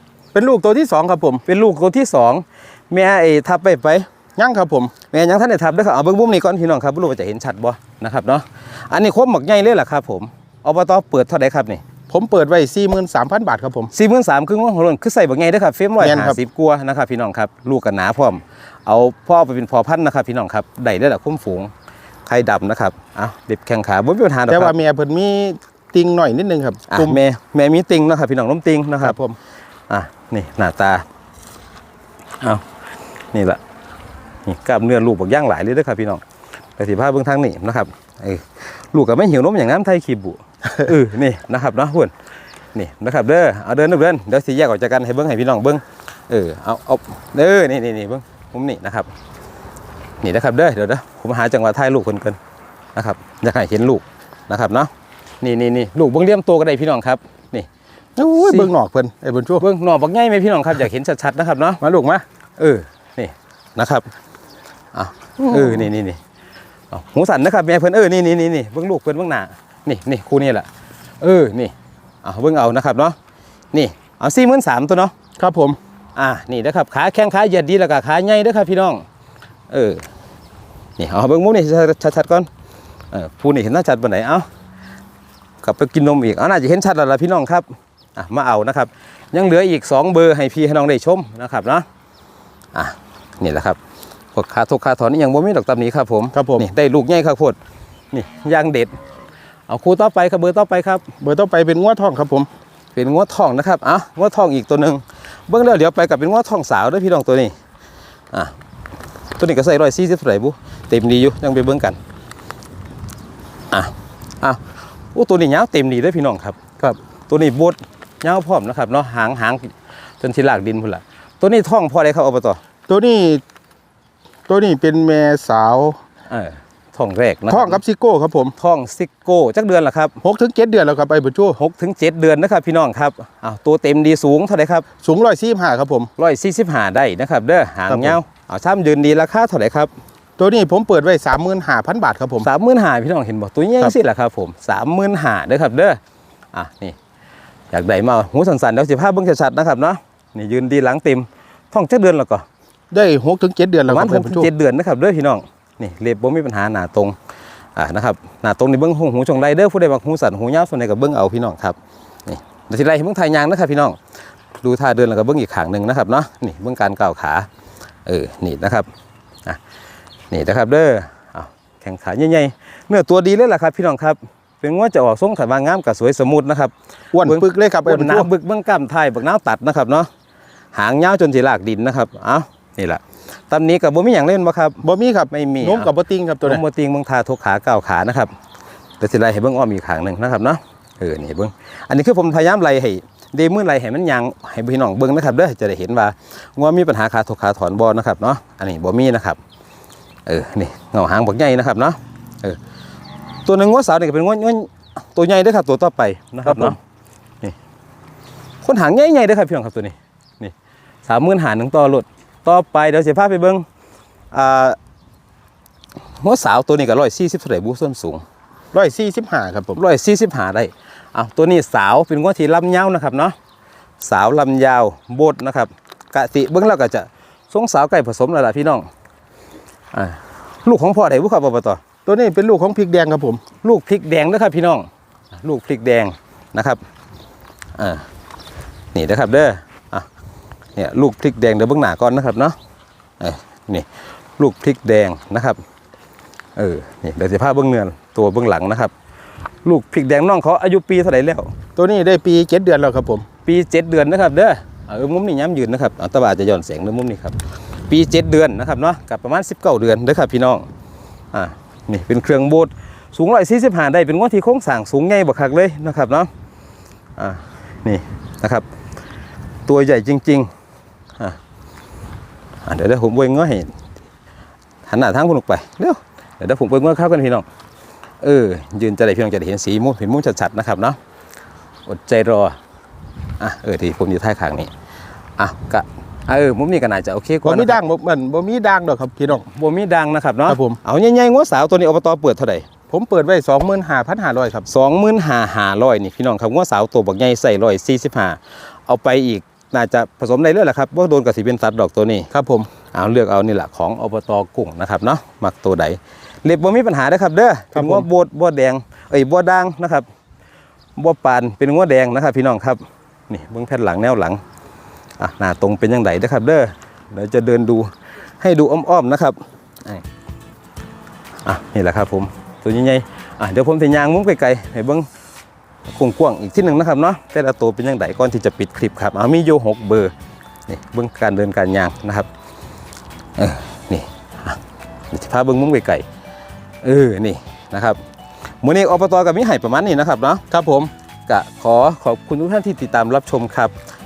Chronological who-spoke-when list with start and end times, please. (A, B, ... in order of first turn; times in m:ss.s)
0:00.3-0:01.4 A
0:01.5-0:04.1 B
0:04.4-0:04.9 A
0:05.1-0:11.8 B
0:12.1-0:13.9 A
0:13.9-0:21.7 B
0:16.0-0:16.4 A
0:22.3-0:24.8 B
0:24.5-0:27.2 A
0:26.9-0:29.2 B
0:29.0-0:29.4 A
0:29.9-0:31.0 B
0:33.3-0:33.6 B
0:34.5-0:36.2 B
0:36.8-0:42.1 B
0:42.7-0:49.1 B
0:50.2-0:52.4 B
0:53.0-0:54.9 B
0:55.4-0:57.7 B
0:58.2-0:59.6 A
0:58.4-0:58.7 B
0:59.6-1:01.8 B
1:01.8-1:02.2 A
1:02.6-1:04.1 B
1:04.9-1:06.2 B
1:05.4-1:05.8 A
1:06.9-1:10.7 B
1:11.2-1:13.2 B
1:13.7-1:15.1 B
1:15.4-1:15.8 A
1:16.2-1:19.0 B
1:19.7-1:20.1 B
1:21.0-1:22.5 B
1:23.1-1:24.5 B
1:25.6-1:31.9 B
1:32.7-1:33.8 B
1:34.3-1:37.6 B
1:36.3-1:36.6 A
1:38.1-1:39.0 B
1:39.7-1:41.1 B
1:41.2-1:42.5 A
1:43.0-1:47.5 B
1:49.4-1:52.0 B
1:53.7-1:54.6 B
1:55.1-1:56.6 B
1:57.3-2:02.6 B
2:02.9-2:03.4 A
2:04.5-2:06.0 A
2:06.3-2:07.8 B
2:07.5-2:08.6 A
2:08.6-2:10.2 B
2:10.2-2:11.6 A
2:11.6-2:14.9 B
2:15.0-2:16.1 A
2:16.2-2:19.9 B
2:17.9-2:18.2 A
2:20.4-2:22.5 A
2:22.4-2:26.0 B
2:26.5-2:27.0 B
2:27.7-2:32.4 B
2:32.9-2:34.5 A
2:33.9-2:37.2 B
2:37.8-2:44.0 B
2:44.6-2:47.5 B
2:48.1-2:48.9 B
2:50.3-2:56.7 B
2:57.1-2:58.3 A
2:57.2-3:00.1 B
3:00.7-3:08.3 B
3:04.8-3:06.6 A
3:09.0-3:19.4 B
3:20.3-3:22.6 B
3:23.4-3:26.8 B
3:26.5-3:26.8 A
3:28.6-3:30.5 B
3:31.1-3:33.6 B
3:34.3-3:34.8 B
3:36.2-3:38.2 B
3:38.7-3:39.8 A
3:39.8-3:43.4 B
3:44.0-3:48.9 B
3:49.9-3:51.8 B
3:52.1-3:53.4 A
3:53.6-3:54.9 B
3:55.4-3:56.8 B
3:57.8-3:58.1 B
3:58.9-4:00.1 B
4:00.8-4:02.6 B
4:03.2-4:05.6 B
4:06.6-4:08.9 B
4:09.6-4:11.5 B
4:11.8-4:13.2 A
4:13.4-4:17.4 B
4:17.9-4:20.7 B
4:21.3-4:26.3 B
4:27.2-4:28.6 B
4:29.7-4:30.5 B
4:32.6-4:33.8 B
4:34.9-4:37.5 B
4:38.2-4:41.0 B
4:41.9-4:42.6 B
4:43.4-4:44.7 B
4:45.4-4:47.8 B
4:47.4-4:49.5 A
4:49.3-4:52.7 B
4:50.5-4:50.8 A
4:52.9-4:54.7 A
4:54.7-5:02.3 B
5:02.3-5:02.7 A
5:02.9-5:10.1 B
5:07.7-5:08.1 A
5:11.0-5:14.4 B
5:15.2-5:20.0 B
5:21.4-5:25.1 B
5:25.9-5:30.1 B
5:30.7-5:32.3 B
5:33.4-5:34.6 B
5:35.1-5:36.1 B
5:36.8-5:38.0 B
5:38.6-5:40.4 B
5:40.5-5:40.9 A
5:41.3-5:43.7 B